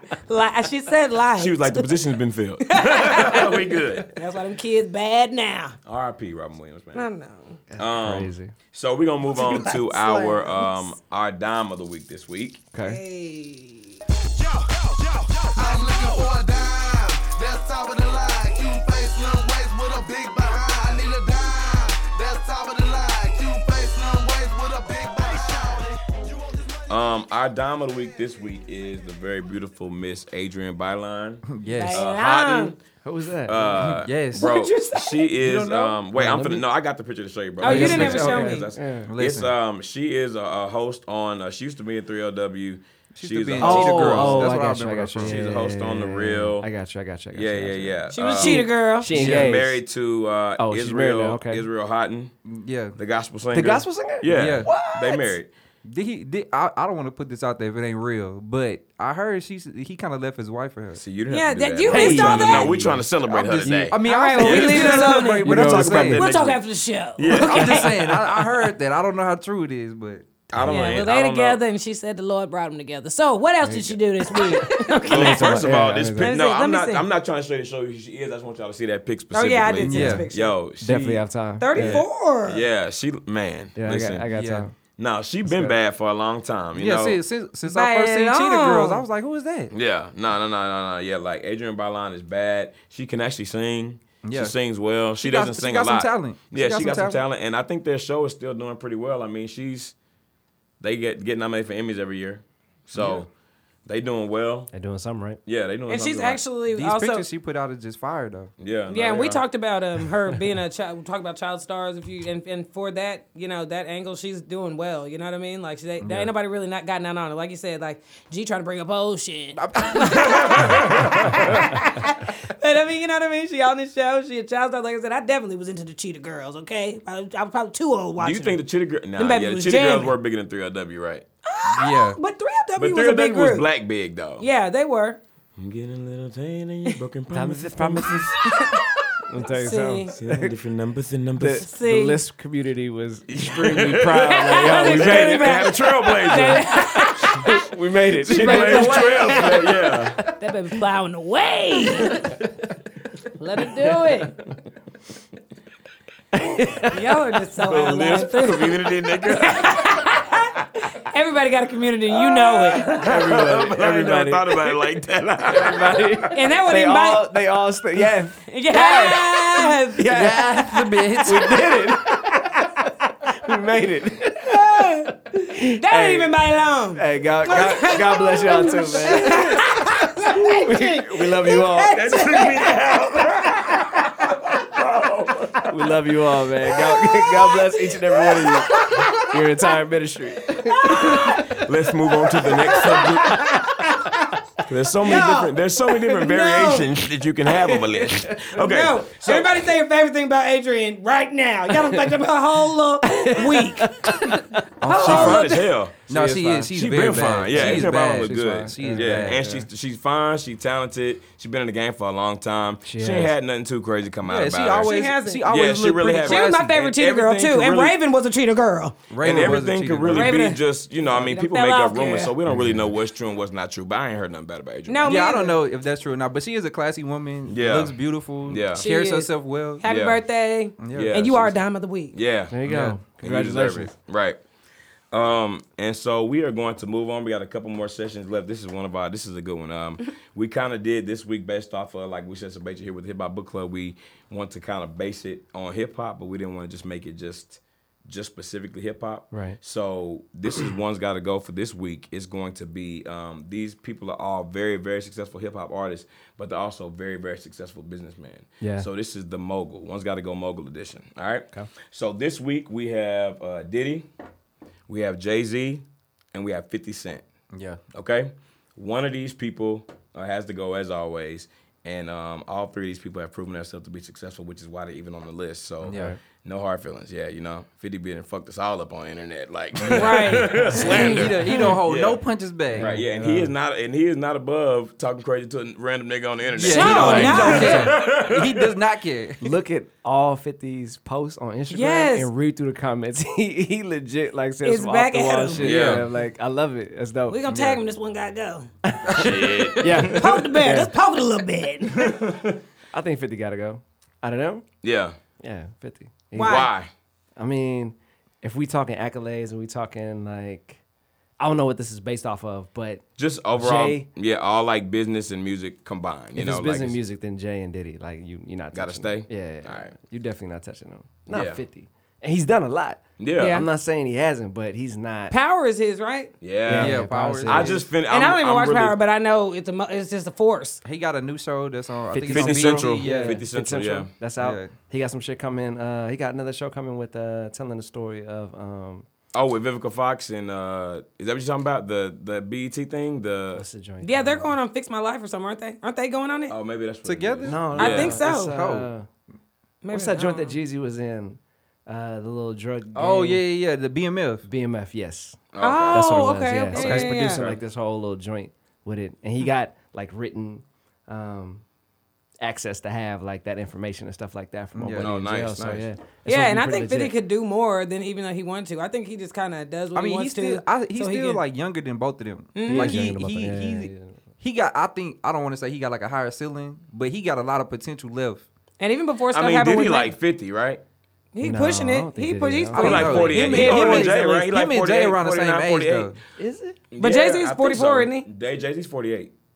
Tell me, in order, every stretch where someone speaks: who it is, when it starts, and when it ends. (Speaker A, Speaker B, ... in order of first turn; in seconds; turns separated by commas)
Speaker A: 0.3-2.0, Speaker B: 1.4-4.2, Speaker A: 2.6-5.8, Speaker B: 5.9-7.1, Speaker A: 7.0-7.6, Speaker C: 7.7-8.5, Speaker B: 7.8-12.6, Speaker A: 9.3-10.6, Speaker C: 12.7-13.0, Speaker A: 12.8-14.0, Speaker D: 14.2-26.8, Speaker B: 26.9-32.8, Speaker E: 31.5-32.0, Speaker A: 31.7-32.8, Speaker C: 33.0-34.0, Speaker B: 33.5-44.6, Speaker E: 34.0-34.5, Speaker A: 34.3-35.3, Speaker E: 35.4-36.1, Speaker C: 36.2-36.6, Speaker A: 37.6-38.7, Speaker E: 37.6-38.4, Speaker C: 37.6-39.1, Speaker E: 39.1-39.5, Speaker E: 43.1-45.5, Speaker C: 43.6-49.8, Speaker B: 45.2-46.7, Speaker B: 47.3-52.3, Speaker A: 48.1-49.1, Speaker E: 49.1-49.5, Speaker C: 50.6-51.7, Speaker E: 52.5-53.0, Speaker B: 53.0-55.5, Speaker C: 53.5-55.3, Speaker E: 54.3-54.7, Speaker E: 55.9-61.0, Speaker B: 61.0-66.6, Speaker A: 61.3-62.8, Speaker C: 61.9-63.9, Speaker E: 63.6-66.3, Speaker A: 64.0-68.3, Speaker C: 65.4-66.2, Speaker B: 67.2-68.1, Speaker E: 67.3-70.3, Speaker B: 70.5-71.6, Speaker A: 70.6-75.7, Speaker C: 73.6-76.4, Speaker B: 75.0-81.2, Speaker A: 76.2-77.1, Speaker A: 79.3-80.5, Speaker E: 79.8-80.2, Speaker C: 80.8-82.0, Speaker A: 81.6-82.6, Speaker B: 82.5-84.3, Speaker C: 83.8-84.7, Speaker E: 84.3-84.7, Speaker B: 85.0-87.2, Speaker C: 85.5-85.8, Speaker E: 86.8-89.7, Speaker A: 87.7-89.0, Speaker B: 89.7-100.0, Speaker E: 94.2-94.5, Speaker E: 95.2-97.2, Speaker B: 100.8-103.3, Speaker E: 103.0-103.2, Speaker B: 103.9-104.7, Speaker C: 104.7-105.4, Speaker B: 105.5-106.4, Speaker A: 105.9-107.3, Speaker E: 106.7-108.5, Speaker B: 108.6-109.4, Speaker A: 108.9-128.6, Speaker E: 116.0-116.3, Speaker E: 119.6-120.8, Speaker B: 120.1-121.6, Speaker B: 128.2-131.2, Speaker A: 129.2-130.1, Speaker A: 131.4-133.7, Speaker E: 131.7-132.2, Speaker B: 132.8-134.4, Speaker A: 134.4-135.2, Speaker B: 135.6-138.4, Speaker C: 137.3-138.8, Speaker A: 138.4-140.1, Speaker C: 139.3-140.5, Speaker B: 140.1-141.7, Speaker C: 141.4-145.7, Speaker A: 141.6-142.2, Speaker B: 143.3-146.7, Speaker A: 144.3-147.6, Speaker C: 146.4-150.3, Speaker B: 148.2-150.2, Speaker A: 148.3-149.6, Speaker A: 150.4-152.4, Speaker C: 152.0-152.5, Speaker A: 153.4-154.4, Speaker C: 156.3-157.2, Speaker A: 156.9-163.0, Speaker B: 157.6-159.9, Speaker C: 162.4-176.4, Speaker B: 162.8-166.1, Speaker A: 166.3-167.3, Speaker A: 168.5-170.1, Speaker E: 170.1-171.7, Speaker A: 174.4-183.6, Speaker C: 176.9-182.2, Speaker B: 181.9-185.9, Speaker C: 185.7-191.6, Speaker B: 188.2-188.9, Speaker A: 188.8-189.1, Speaker A: 190.7-191.4, Speaker B: 190.8-193.4, Speaker C: 192.4-193.9, Speaker A: 193.4-194.2, Speaker B: 194.7-199.7, Speaker A: 195.0-196.9, Speaker C: 197.8-198.2, Speaker A: 198.5-205.7, Speaker C: 203.1-204.6, Speaker E: 204.8-205.5, Speaker B: 205.0-214.9, Speaker C: 205.1-205.4, Speaker C: 206.1-206.7, Speaker E: 206.1-209.4, Speaker C: 207.5-209.7, Speaker C: 212.8-213.3, Speaker E: 214.2-216.7, Speaker A: 214.8-215.4, Speaker B: 215.5-218.0, Speaker A: 216.2-219.1, Speaker E: 219.1-220.3, Speaker B: 219.2-225.2, Speaker A: 220.1-222.3, Speaker C: 222.4-222.9, Speaker A: 224.9-225.6, Speaker E: 225.1-229.8, Speaker B: 227.5-228.8, Speaker A: 228.8-232.2, Speaker B: 229.8-230.2, Speaker E: 230.8-231.2, Speaker B: 230.9-231.6, Speaker B: 232.1-234.4, Speaker C: 232.5-233.9, Speaker E: 232.7-233.0, Speaker B: 235.1-264.1, Speaker C: 249.3-249.6, Speaker C: 258.6-258.9, Speaker B: 264.9-267.2, Speaker E: 267.5-267.8, Speaker B: 267.9-282.2, Speaker E: 275.9-276.1, Speaker C: 275.9-276.2, Speaker A: 279.9-281.8, Speaker E: 280.7-283.0, Speaker C: 282.7-283.5, Speaker B: 282.8-288.7, Speaker E: 286.6-289.5, Speaker A: 286.6-287.9, Speaker C: 286.8-287.9, Speaker C: 289.4-297.6, Speaker A: 291.7-292.3, Speaker A: 294.6-295.7, Speaker E: 295.6-296.1, Speaker B: 295.6-296.1, Speaker A: 297.3-298.7, Speaker C: 298.8-300.9, Speaker B: 299.1-300.4, Speaker A: 299.9-302.2, Speaker C: 302.9-304.6, Speaker B: 304.8-305.2, Speaker C: 305.4-306.7, Speaker A: 306.4-306.7, Speaker B: 306.4-306.9, Speaker C: 307.4-310.8, Speaker C: 311.4-313.1, Speaker B: 313.2-317.0, Speaker C: 313.6-314.1, Speaker C: 316.4-325.3, Speaker B: 318.7-319.9, Speaker B: 321.3-321.6, Speaker B: 323.2-323.6, Speaker A: 323.4-323.6, Speaker A: 325.3-326.4, Speaker B: 326.4-329.0, Speaker C: 326.7-327.9, Speaker E: 326.7-327.8, Speaker A: 328.1-330.8, Speaker E: 330.8-333.4, Speaker C: 332.1-339.1, Speaker B: 332.2-334.1, Speaker E: 334.4-334.7, Speaker B: 339.3-343.6, Speaker C: 343.6-344.5, Speaker A: 344.0-346.6, Speaker B: 346.5-348.2, Speaker E: 347.1-348.9, Speaker C: 347.4-349.1, Speaker A: 347.8-348.6, Speaker A: 349.8-350.6, Speaker C: 349.9-353.4, Speaker E: 352.9-354.5, Speaker C: 354.4-361.6, Speaker B: 355.5-356.3, Speaker A: 355.6-357.4, Speaker E: 356.7-357.1, Speaker B: 357.2-357.6, Speaker C: 362.4-367.1, Speaker E: 364.8-365.1, Speaker B: 365.0-365.9, Speaker A: 366.3-371.4, Speaker E: 369.9-378.5, Speaker A: 372.6-373.1, Speaker C: 372.7-374.2, Speaker A: 378.8-380.1, Speaker B: 379.3-380.8, Speaker A: 381.3-384.2, Speaker C: 381.4-383.7, Speaker E: 382.7-386.2, Speaker B: 382.8-386.1, Speaker C: 386.4-386.8, Speaker B: 386.9-389.3, Speaker A: 387.0-388.3